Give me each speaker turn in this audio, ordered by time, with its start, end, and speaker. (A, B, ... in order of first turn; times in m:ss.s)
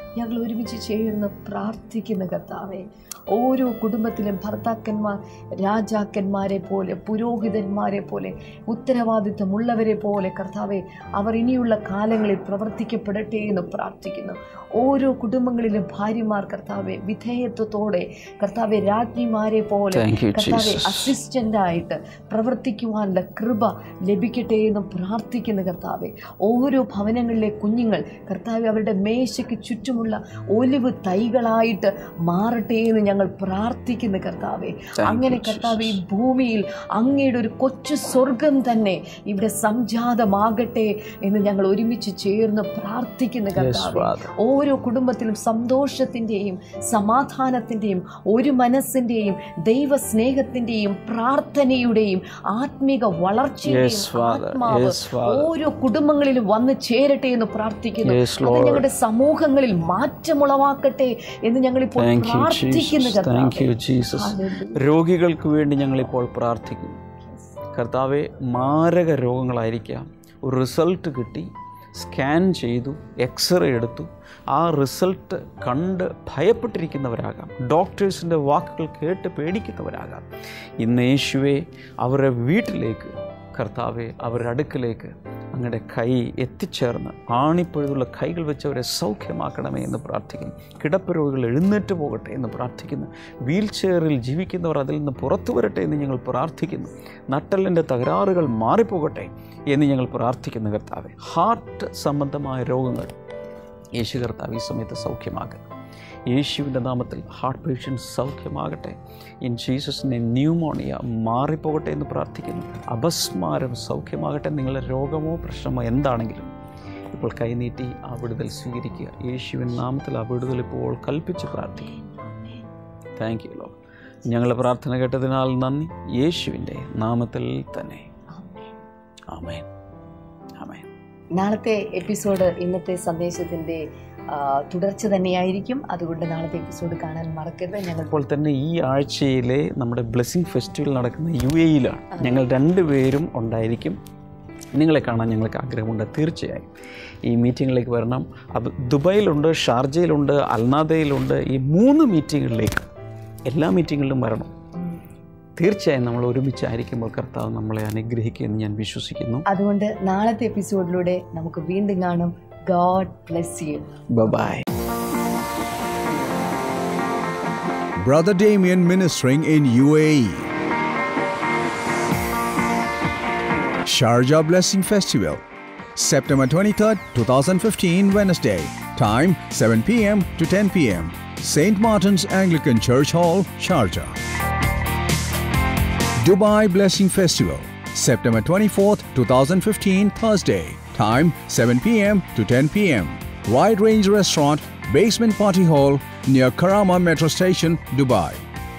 0:00.2-1:04.8 A
0:19.9-0:21.1 B
0:35.0-0:36.0 B
0:43.5-0:44.3 B
0:53.7-0:55.5 B
0:58.0-0:58.9 B
1:02.0-1:07.0 B
1:07.2-1:07.5 A
1:07.7-1:20.3 B
1:20.8-1:43.1 B
1:44.0-1:45.6 B
1:46.3-1:56.5 B
1:57.1-2:02.0 B
2:01.6-2:02.6 A
2:03.2-2:03.8 B
2:04.3-2:08.1 B
2:08.3-2:08.7 A
2:09.3-2:09.7 B
2:10.6-2:10.9 B
2:11.4-2:18.2 A
2:18.1-2:24.0 B
2:22.1-2:22.4 A
2:24.8-2:26.7 B
2:27.3-2:32.8 B
2:33.5-2:34.5 B
2:35.6-2:39.5 B
2:39.5-2:43.8 A
2:44.1-2:44.6 B
2:48.0-2:50.5 C
2:53.9-2:55.4 C
2:56.0-3:04.2 C
3:06.2-3:18.4 C